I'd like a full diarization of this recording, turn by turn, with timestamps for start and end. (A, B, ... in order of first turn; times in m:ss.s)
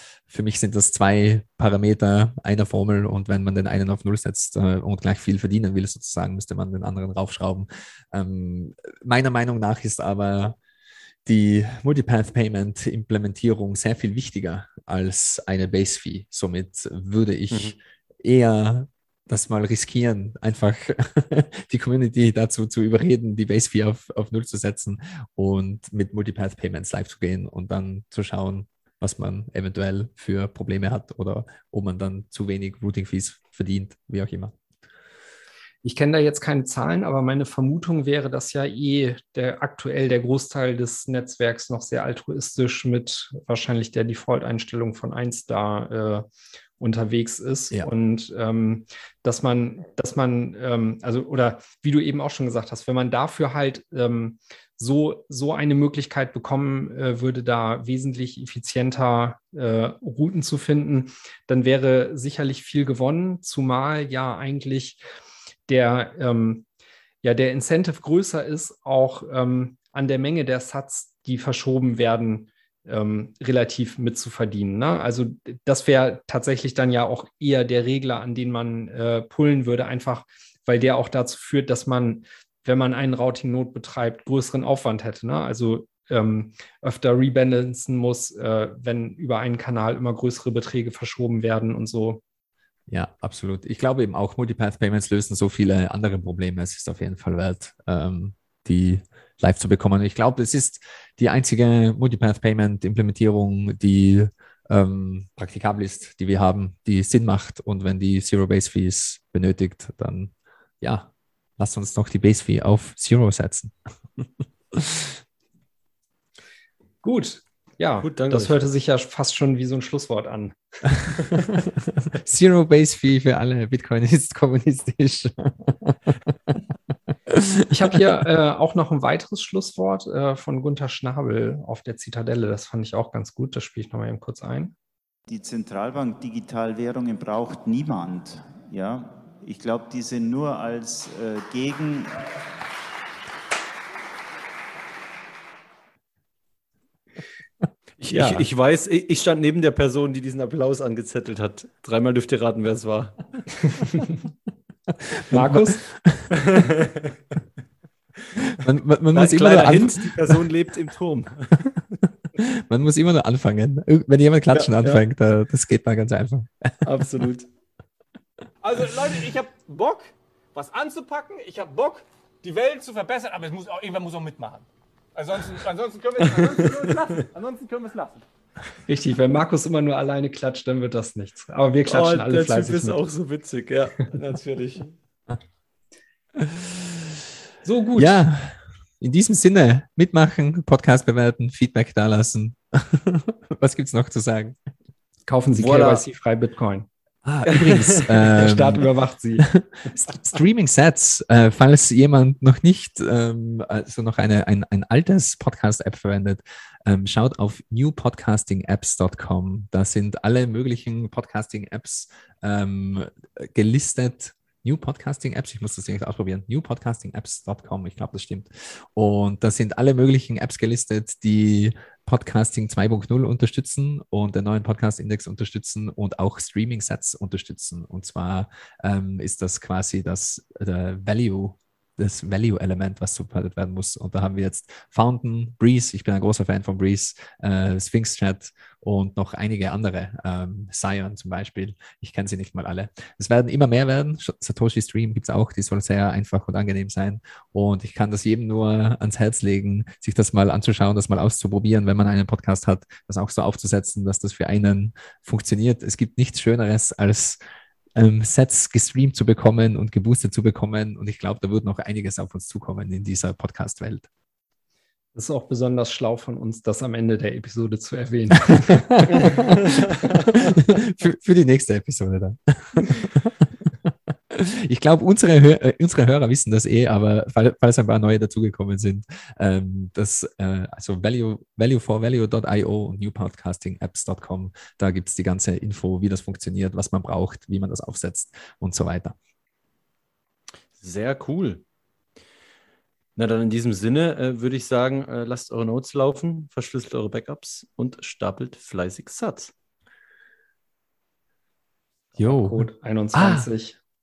0:00.3-0:10.6 A
0:11.3-0:34.5 A
0:35.8-0:46.3 B
0:46.8-1:05.0 B
1:05.7-1:06.6 B
1:07.2-1:32.2 B
1:32.9-1:53.7 A
1:54.7-1:55.2 A
1:57.0-2:00.6 B
1:58.0-1:58.6 C
2:02.2-2:06.6 A
2:07.3-2:07.6 A
2:07.7-2:14.7 B
2:15.3-2:22.3 D
2:28.0-2:34.0 C
2:28.1-2:28.4 B
2:35.1-2:36.4 A
2:35.3-2:35.8 B
2:36.3-2:37.1 C
2:38.4-2:40.4 A
2:39.1-2:41.6 C
2:42.4-2:46.9 A
2:44.5-2:45.0 C
2:46.8-2:47.5 C
2:48.6-2:58.3 E
2:58.9-3:03.0 B
3:01.9-3:05.0 C
3:06.4-3:06.8 A
3:07.6-3:08.2 B
3:08.0-3:14.6 A
3:15.3-3:16.9 B
3:15.6-3:16.0 C
3:17.2-3:18.9 A
3:18.4-3:19.4 B
3:19.4-4:17.4 A
4:18.0-4:24.1 A
4:25.2-4:29.5 B
4:28.7-4:49.2 A
4:50.8-4:51.6 C
4:53.2-4:59.5 C
5:02.2-5:03.8 B
5:02.2-5:03.5 A